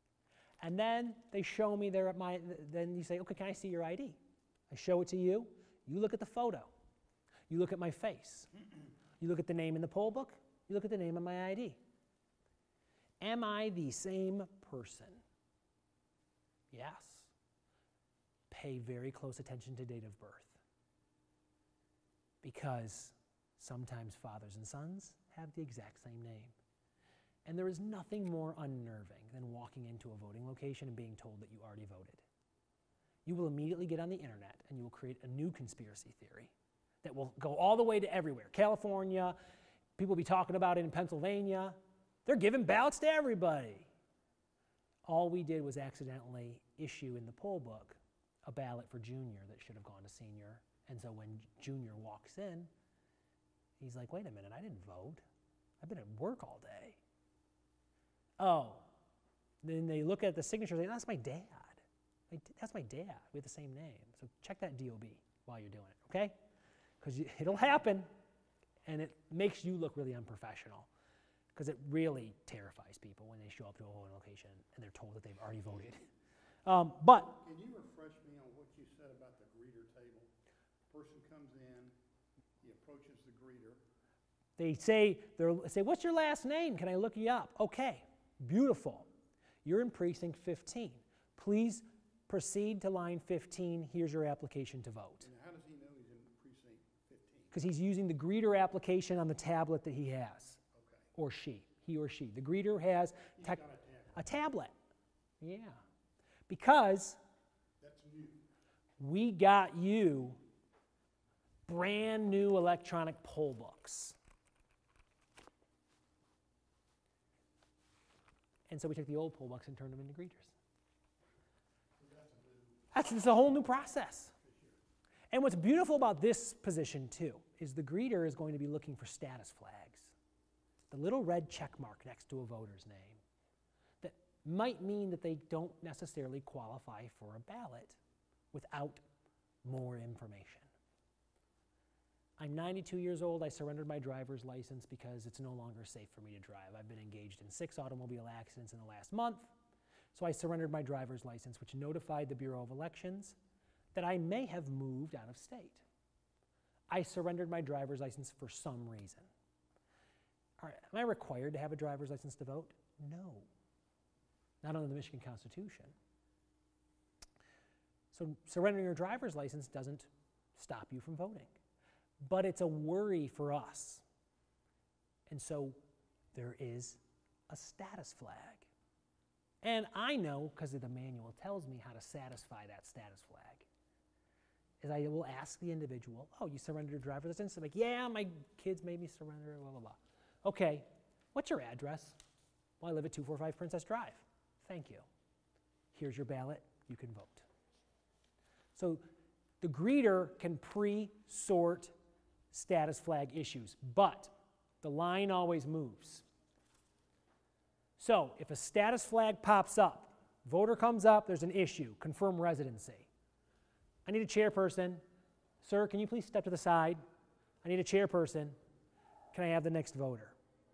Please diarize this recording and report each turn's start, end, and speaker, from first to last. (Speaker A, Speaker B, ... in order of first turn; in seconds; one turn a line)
Speaker A: 0.6-4.2
Speaker A: 4.7-6.7
Speaker A: 7.5-8.5
Speaker A: 9.2-11.8
Speaker A: 13.2-15.2
Speaker A: 16.7-17.3
Speaker A: 18.5-20.6
Speaker A: 22.4-26.5
Speaker A: 27.4-32.2
Speaker A: 33.2-36.5
Speaker A: 37.0-39.4
Speaker A: 40.0-43.9
Speaker A: 45.0-52.7
Speaker A: 53.8-55.2
Speaker A: 55.8-57.0
Speaker A: 58.4-58.8
Speaker A: 59.6-66.3
Speaker A: 67.0-68.1
Speaker A: 68.8-70.9
Speaker A: 71.5-76.0
Speaker A: 76.7-77.4
Speaker B: 77.4-80.3
Speaker B: 80.9-81.9
Speaker B: 82.6-83.8
Speaker A: 84.6-89.1
Speaker A: 89.6-95.2
Speaker B: 95.2-97.5
Speaker A: 97.5-100.6
Speaker B: 100.7-101.0
Speaker A: 101.1-103.6
Speaker B: 103.4-104.2
Speaker A: 104.1-104.7
Speaker A: 105.4-105.8
Speaker A: 106.5-107.2
Speaker B: 107.8-108.4
Speaker A: 109.0-110.4
Speaker A: 111.7-114.2
Speaker A: 118.7-120.5
Speaker B: 122.0-122.9
Speaker A: 122.9-124.3
Speaker B: 124.4-124.8
Speaker A: 125.3-130.1
Speaker A: 130.9-133.2
Speaker A: 134.0-138.0
Speaker A: 138.5-139.0
Speaker A: 139.6-140.7
Speaker A: 142.4-149.5
Speaker A: 150.1-153.3
Speaker A: 153.9-155.8
Speaker A: 156.9-159.3
Speaker A: 160.6-163.5
Speaker A: 164.6-165.9
Speaker A: 168.1-171.5
Speaker A: 172.2-174.0
Speaker A: 175.3-175.8
Speaker A: 176.3-178.7
Speaker A: 179.6-183.7
Speaker A: 184.8-192.2
Speaker A: 192.8-195.0
Speaker A: 195.9-197.4
Speaker A: 198.8-199.0
Speaker A: 199.6-201.9
Speaker A: 202.5-206.2
Speaker A: 208.0-213.1
Speaker A: 214.1-215.0
Speaker A: 215.6-217.0
Speaker A: 217.6-218.6
Speaker A: 219.3-220.3